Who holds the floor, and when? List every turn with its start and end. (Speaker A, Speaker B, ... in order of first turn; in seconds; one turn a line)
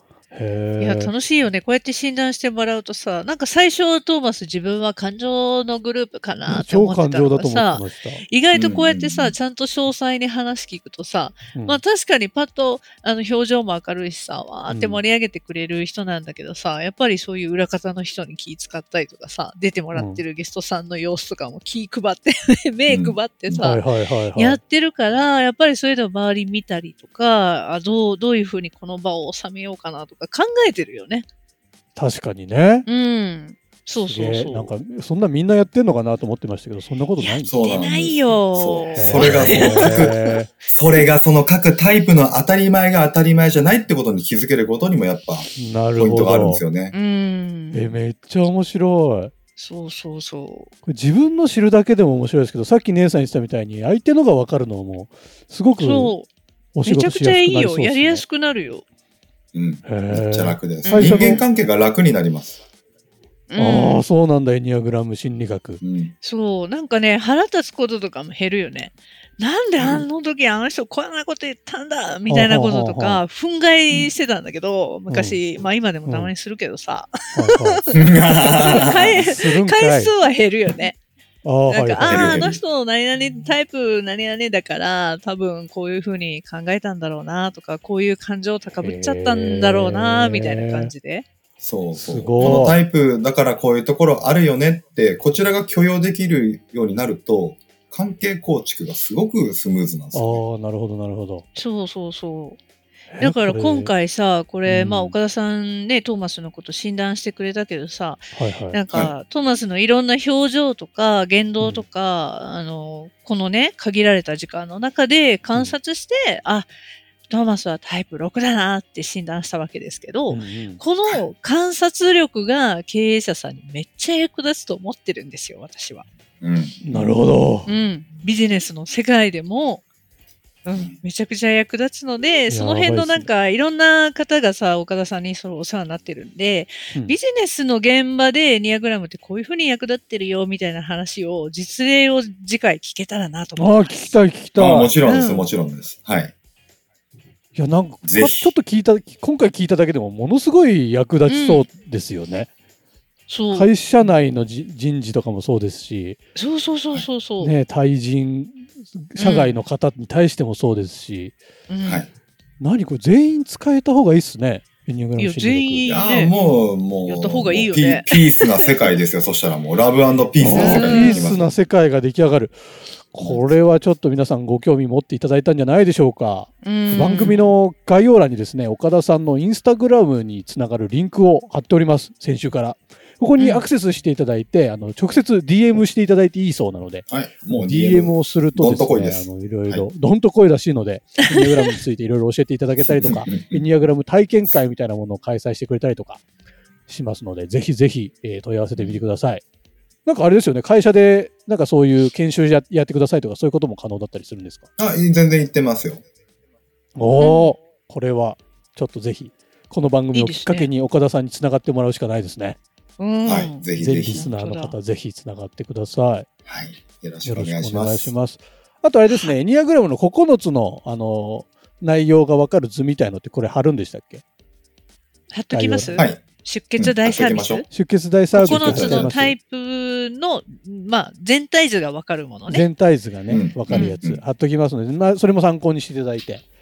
Speaker A: 0.3-1.1
Speaker B: 0.8-23.8
Speaker A: 6.5-8.2
Speaker C: 8.5-9.3
Speaker A: 11.5-11.8
Speaker A: 14.7-15.0
Speaker A: 19.9-20.2
Speaker C: 22.9-23.2
Speaker A: 23.5-24.6
Speaker B: 24.3-31.2
Speaker A: 31.9-32.9
Speaker B: 32.9-34.7
Speaker A: 34.0-37.6
Speaker B: 37.2-40.3
Speaker C: 37.5-46.9
Speaker A: 38.9-40.5
Speaker A: 45.5-46.6
Speaker B: 46.9-48.0
Speaker A: 47.7-49.3
Speaker B: 49.6-50.7
Speaker A: 50.8-56.1
Speaker B: 55.8-56.3
Speaker A: 56.7-58.2
Speaker B: 56.9-58.8
Speaker C: 59.5-62.6
Speaker A: 59.8-61.4
Speaker B: 60.8-61.4
Speaker B: 63.5-64.0
Speaker A: 63.5-65.8
Speaker C: 65.8-66.1
Speaker B: 66.2-81.0
Speaker C: 69.8-70.0
Speaker A: 72.3-73.2
Speaker A: 75.1-75.4
Speaker A: 76.0-76.3
Speaker A: 77.3-77.9
Speaker C: 77.9-79.2
Speaker A: 79.2-80.1
Speaker A: 81.4-82.5
Speaker B: 81.7-91.2
Speaker C: 82.0-82.6
Speaker A: 88.8-90.9
Speaker C: 91.6-100.4
Speaker A: 91.9-92.8
Speaker B: 92.4-92.7
Speaker A: 100.1-101.5
Speaker B: 101.5-102.6
Speaker A: 103.1-103.9
Speaker B: 103.2-116.7
Speaker A: 104.6-105.2
Speaker A: 108.3-108.8
Speaker A: 111.6-111.8
Speaker B: 117.3-126.0
Speaker A: 120.3-120.8
Speaker C: 126.4-127.1
Speaker A: 126.8-127.7
Speaker B: 127.7-129.8
Speaker B: 130.6-144.2
Speaker A: 132.5-133.3
Speaker A: 143.6-144.9
Speaker C: 144.6-146.3
Speaker B: 145.0-145.5
Speaker A: 147.5-152.5
Speaker C: 148.0-148.5
Speaker B: 151.2-151.7
Speaker B: 153.3-153.7
Speaker A: 153.5-156.2
Speaker B: 156.3-157.5
Speaker A: 157.4-161.3
Speaker B: 159.2-159.6
Speaker B: 161.7-162.1
Speaker A: 162.6-166.0
Speaker B: 165.2-169.0
Speaker C: 165.9-171.5
Speaker A: 170.4-172.6
Speaker B: 170.5-171.3
Speaker A: 173.1-196.2
Speaker B: 176.6-177.5
Speaker B: 183.4-183.6
Speaker C: 187.1-189.9
Speaker C: 192.9-193.6
Speaker A: 196.9-199.4
Speaker A: 200.0-204.7
Speaker C: 204.8-206.0
Speaker A: 207.0-212.6
Speaker B: 207.2-207.6
Speaker B: 210.1-210.7
Speaker B: 213.0-214.8
Speaker C: 213.2-214.3
Speaker A: 213.8-216.3
Speaker C: 216.5-218.1
Speaker A: 217.2-224.2
Speaker B: 225.3-227.7
Speaker A: 225.5-226.0
Speaker C: 225.9-226.2
Speaker C: 226.8-227.6
Speaker A: 227.7-229.3
Speaker B: 228.3-232.7
Speaker C: 228.5-229.3
Speaker A: 232.5-236.4
Speaker C: 233.3-234.2
Speaker B: 233.7-234.0